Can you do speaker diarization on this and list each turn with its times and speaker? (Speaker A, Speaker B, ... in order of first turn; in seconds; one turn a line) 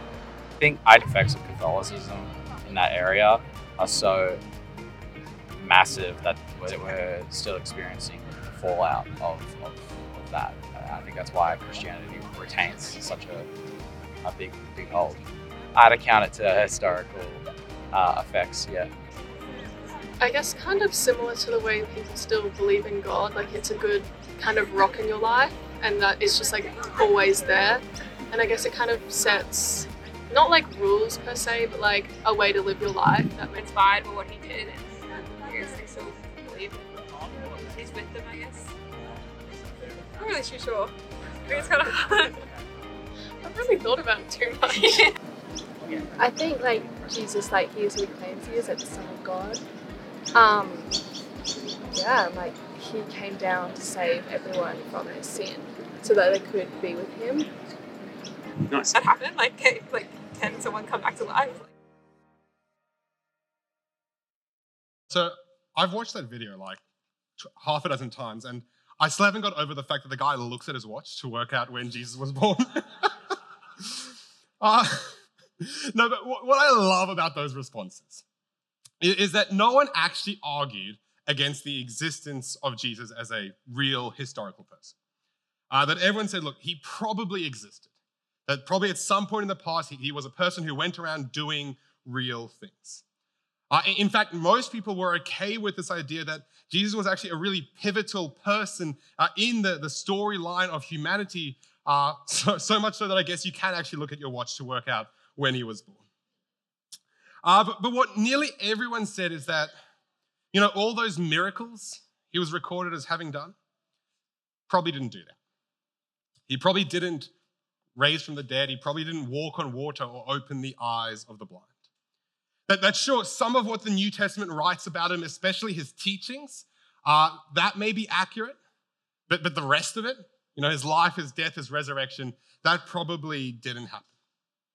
Speaker A: 0.6-4.4
Speaker A: 5.6-13.5
Speaker A: 14.2-18.9
Speaker B: 20.2-33.6
Speaker C: 33.5-36.9
Speaker C: 37.6-38.7
Speaker C: 40.2-40.9
Speaker C: 41.5-42.4
Speaker B: 43.4-45.2
Speaker D: 46.2-49.6
Speaker D: 50.3-51.0
Speaker D: 51.9-57.5
Speaker C: 58.8-61.7
Speaker E: 65.1-66.8
Speaker E: 67.4-73.3
Speaker E: 74.6-78.2
Speaker E: 79.0-84.9
Speaker E: 85.7-87.9
Speaker E: 88.5-93.0
Speaker E: 93.7-106.0
Speaker E: 107.4-109.7
Speaker E: 110.5-113.5
Speaker E: 114.7-115.4
Speaker E: 116.5-117.3
Speaker E: 118.0-121.7
Speaker E: 122.7-128.6
Speaker E: 129.3-134.1